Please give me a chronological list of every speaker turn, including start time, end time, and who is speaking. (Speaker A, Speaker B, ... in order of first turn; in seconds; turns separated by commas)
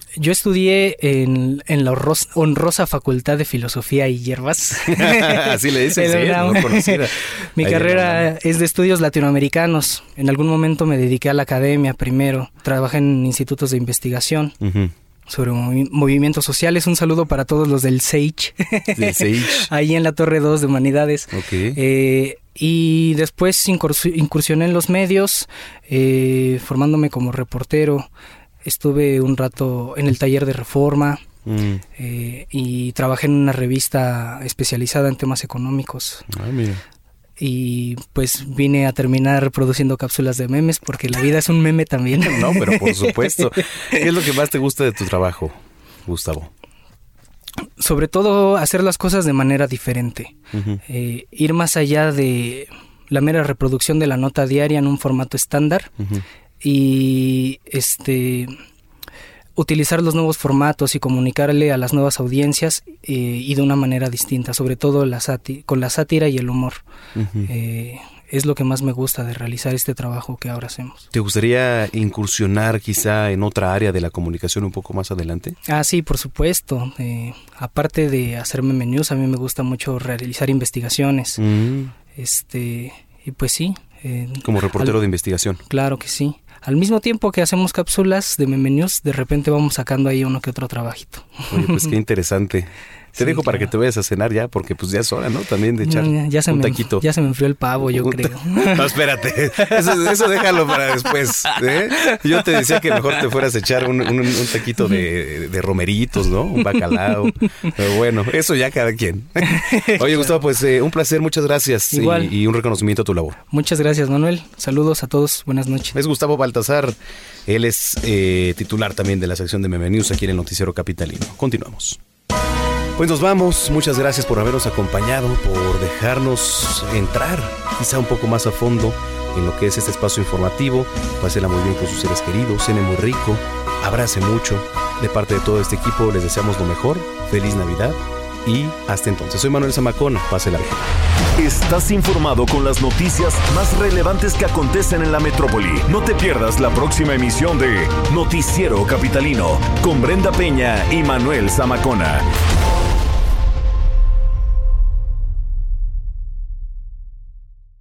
Speaker A: 0.2-14.5, Speaker B: 4.8-8.3, Speaker B: 14.6-14.9, Speaker A: 15.3-28.1, Speaker B: 18.9-19.7, Speaker B: 21.3-21.8, Speaker A: 28.6-31.2, Speaker B: 31.4-31.8, Speaker A: 31.9-36.2, Speaker B: 36.3-36.8, Speaker A: 37.4-44.0, Speaker B: 42.1-46.5, Speaker A: 47.8-50.4, Speaker B: 50.5-50.8, Speaker A: 50.9-55.9, Speaker B: 56.0-56.2, Speaker A: 56.6-58.5, Speaker A: 59.5-66.8, Speaker B: 67.2-67.5, Speaker A: 67.5-71.0, Speaker B: 71.1-75.5, Speaker A: 75.7-81.4, Speaker B: 81.4-81.9, Speaker A: 82.1-85.0, Speaker B: 84.4-85.6, Speaker A: 85.7-91.9, Speaker B: 91.5-97.0, Speaker A: 93.2-93.7, Speaker A: 95.8-99.0, Speaker B: 97.8-113.4, Speaker A: 99.5-103.2, Speaker A: 106.6-107.1, Speaker A: 109.5-110.3, Speaker A: 111.9-112.3, Speaker A: 113.5-116.0, Speaker B: 115.9-117.0, Speaker B: 117.5-122.0, Speaker B: 123.0-140.8, Speaker C: 141.4-152.2